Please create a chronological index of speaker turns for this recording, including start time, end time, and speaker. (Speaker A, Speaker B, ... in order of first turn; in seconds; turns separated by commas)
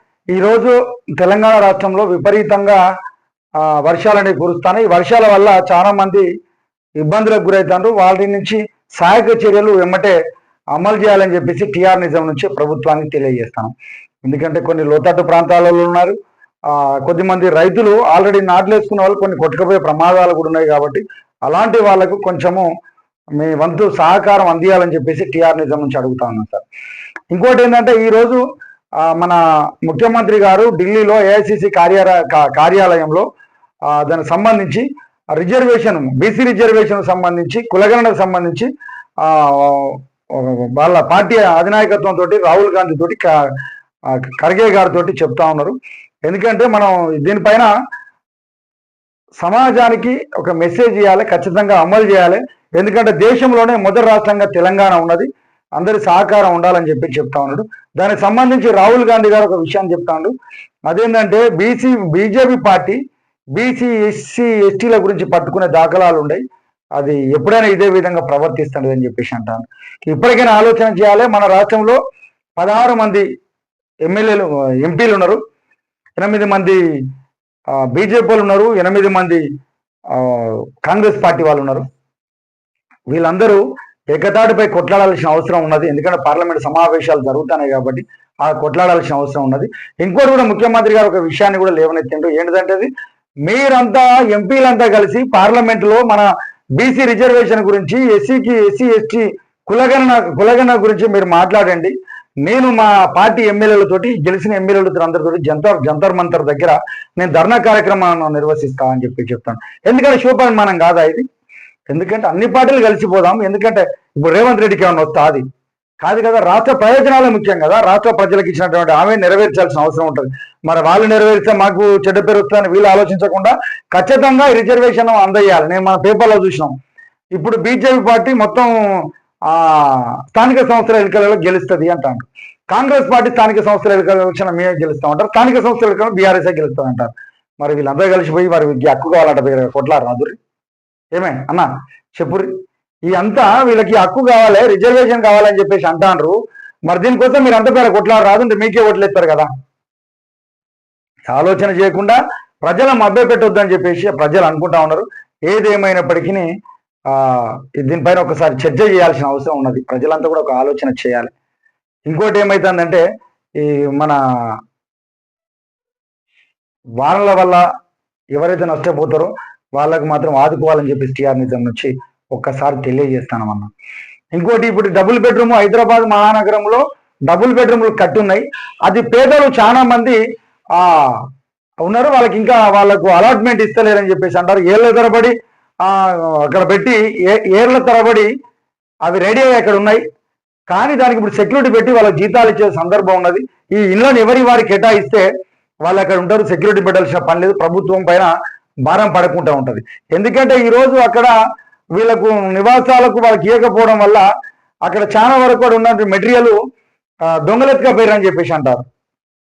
Speaker A: 0.3-2.8, Speaker A: 3.6-6.2, Speaker A: 7.0-10.2, Speaker A: 10.7-22.7, Speaker A: 23.4-26.6, Speaker A: 27.3-28.4, Speaker A: 29.0-33.2, Speaker A: 33.9-38.7, Speaker A: 39.2-43.3, Speaker A: 44.1-47.7, Speaker A: 49.4-60.3, Speaker A: 60.9-63.0, Speaker A: 63.5-66.4, Speaker A: 67.0-72.0, Speaker A: 72.6-73.2, Speaker A: 74.0-75.4, Speaker A: 76.2-76.8, Speaker A: 77.8-79.4, Speaker A: 80.1-81.8, Speaker A: 83.1-92.9, Speaker A: 93.4-111.2, Speaker A: 111.9-115.4, Speaker A: 116.0-126.7, Speaker A: 127.3-140.4, Speaker A: 141.1-142.5, Speaker A: 143.1-149.5, Speaker A: 151.3-156.5, Speaker A: 157.1-161.3, Speaker A: 162.1-163.0, Speaker A: 163.6-164.6, Speaker A: 167.0-167.6, Speaker A: 168.3-173.7, Speaker A: 174.3-180.2, Speaker A: 180.7-181.2, Speaker A: 181.8-188.3, Speaker A: 189.0-190.0, Speaker A: 190.7-195.3, Speaker A: 195.8-198.3, Speaker A: 198.8-201.3, Speaker A: 201.9-204.2, Speaker A: 204.8-206.6, Speaker A: 207.3-208.8